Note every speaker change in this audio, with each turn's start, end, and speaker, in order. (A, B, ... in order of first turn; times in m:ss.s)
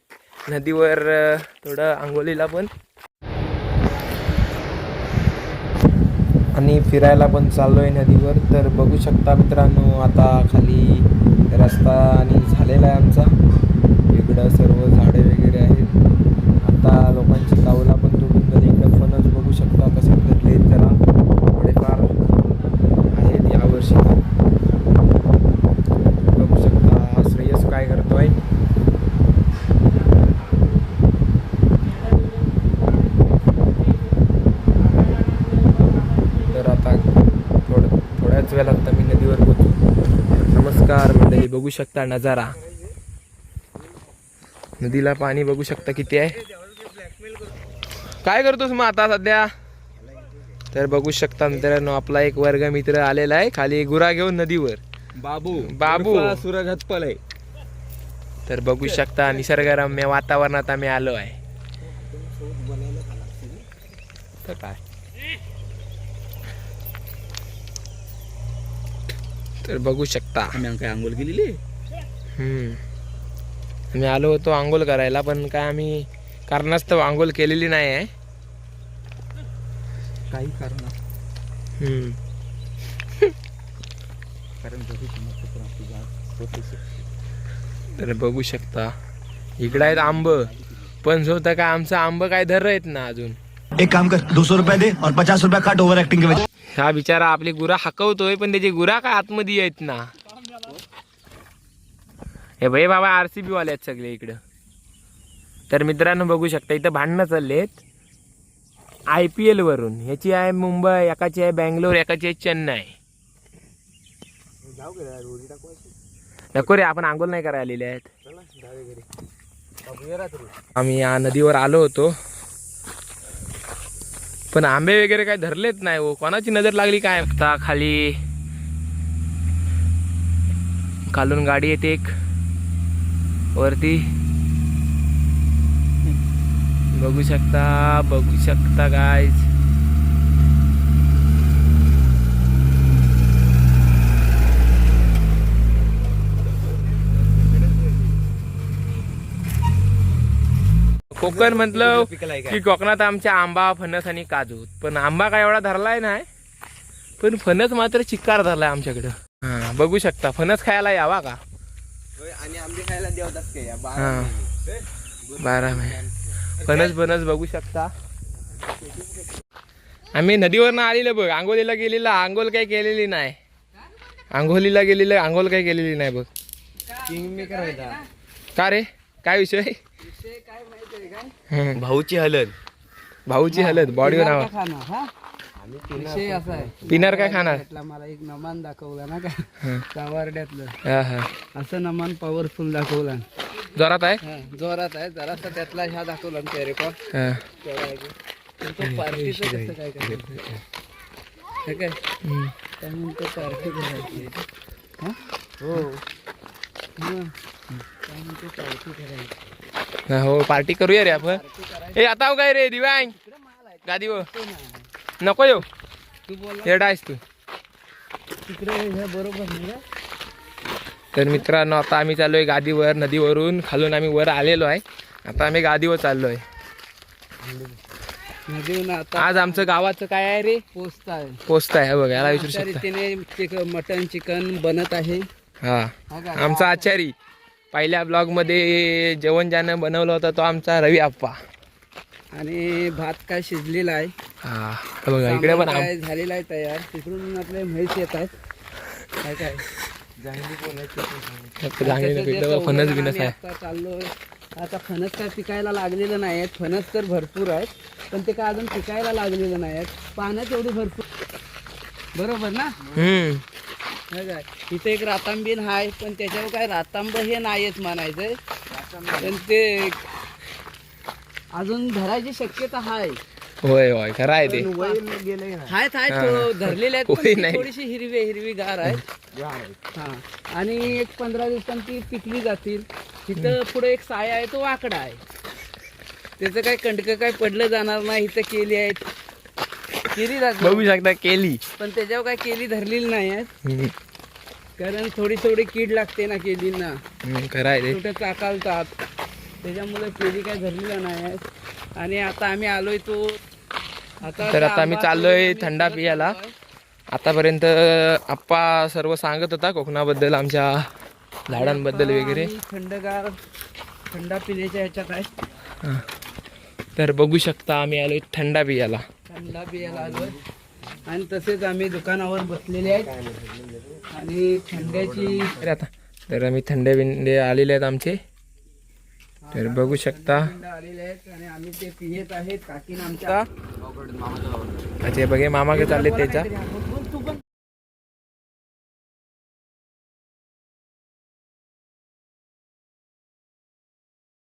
0:00.5-0:02.7 A
0:06.5-0:13.3 A
0:14.1-0:15.9 A
0:16.6-0:21.0 A
0:21.5-0:22.1 A
0:23.1-0:24.2 A
0:26.3-0:28.4 A
0:36.4-0:37.1 A
0:37.7-0:39.8 A
0:40.4-0:42.6 A
0:44.8-0:46.4 A
0:48.2-0:49.5 A
0:50.7-0:54.8 A
0:55.2-0:57.2 B
0:55.6-0:56.4 A
0:58.4-1:01.4 A
0:58.8-0:59.7 B
1:01.8-1:03.6 B
1:04.4-1:04.8 A
1:09.6-1:10.6 A
1:10.5-1:11.6 B
1:12.4-1:12.8 A
1:13.9-1:18.1 A
1:20.3-1:20.9 B
1:21.8-1:22.2 A
1:24.6-1:27.0 B
1:27.9-1:28.9 A
1:29.6-1:30.5 A
1:29.7-1:30.6 B
1:31.0-1:33.4 A
1:33.8-1:36.4 C
1:36.7-1:40.1 A
1:42.6-1:44.4 A
1:45.7-1:47.8 A
1:49.1-1:53.0 A
1:54.6-1:55.9 B
1:56.5-1:58.1 A
1:58.3-1:59.1 B
1:59.9-2:00.5 B
2:00.7-2:02.1 A
2:04.5-2:08.2 A
2:11.1-2:12.1 A
2:13.6-2:14.0 A
2:16.9-2:19.5 A
2:31.2-2:36.2 A
2:31.2-2:32.6 B
2:37.2-2:41.4 A
2:42.2-2:44.6 B
2:44.0-2:44.4 A
2:45.2-2:46.8 B
2:45.4-2:46.0 A
2:46.6-2:47.9 A
2:50.1-2:53.4 A
2:54.3-2:56.3 A
2:56.9-2:58.1 D
2:57.1-2:58.0 B
2:58.6-2:59.8 A
3:00.0-3:01.3 D
3:01.5-3:01.8 A
3:01.8-3:02.6 B
3:03.3-3:04.5 A
3:03.5-3:05.1 D
3:05.6-3:07.0 B
3:06.0-3:10.8 D
3:06.9-3:07.6 A
3:10.8-3:11.3 A
3:11.5-3:13.2 D
3:13.8-3:14.2 A
3:14.2-3:17.0 D
3:17.1-3:17.4 A
3:17.6-3:20.3 D
3:18.8-3:19.5 A
3:19.2-3:20.5 B
3:21.6-3:22.0 D
3:22.2-3:22.5 A
3:22.8-3:24.3 D
3:25.6-3:26.0 B
3:27.0-3:27.3 D
3:28.1-3:29.3 D
3:30.1-3:31.4 A
3:30.9-3:32.0 D
3:31.9-3:33.1 A
3:33.0-3:34.9 D
3:33.9-3:34.3 A
3:35.2-3:35.7 A
3:36.2-3:36.9 D
3:36.6-3:37.2 A
3:38.4-3:39.8 D
3:41.1-3:46.4 A
3:47.4-3:47.8 B
3:48.5-3:49.7 D
3:49.2-3:50.6 A
3:50.7-3:51.4 D
3:51.5-3:52.8 A
3:52.1-3:55.2 D
3:55.6-3:57.1 A
3:56.1-3:56.9 D
3:57.7-4:01.4 A
4:02.3-4:04.1 D
4:04.4-4:05.9 A
4:05.2-4:08.3 D
4:09.2-4:09.7 D
4:10.2-4:11.6 B
4:11.6-4:13.4 A
4:11.8-4:21.0 D
4:22.1-4:22.8 D
4:22.9-4:23.4 A
4:24.1-4:28.4 D
4:28.7-4:29.4 B
4:29.2-4:30.0 D
4:31.5-4:33.2 D
4:33.6-4:34.7 A
4:34.5-4:35.0 D
4:34.5-4:35.8 B
4:35.7-4:39.1 D
4:36.1-4:37.7 A
4:39.3-4:39.8 B
4:39.9-4:45.2 D
4:46.4-4:49.0 D
4:50.1-4:50.9 D
4:50.6-4:51.6 A
4:51.8-4:53.5 D
4:53.6-4:53.9 A
4:54.8-4:57.0 D
4:57.2-4:58.0 A
4:57.9-4:58.9 D
4:59.6-5:01.4 D
5:02.0-5:03.4 D
5:04.2-5:06.5 D
5:04.4-5:06.4 A
5:07.1-5:10.9 A
5:11.5-5:12.5 A
5:11.5-5:13.4 D
5:14.1-5:15.3 D
5:17.0-5:19.0 A
5:19.3-5:20.4 D
5:19.8-5:20.4 B
5:21.0-5:23.1 D
5:23.1-5:24.0 B
5:24.1-5:25.6 D
5:24.7-5:25.6 B
5:25.6-5:28.2 A
5:29.4-5:33.4 D
5:29.5-5:30.5 A
5:33.8-5:34.9 B
5:35.0-5:36.5 A
5:35.7-5:37.4 D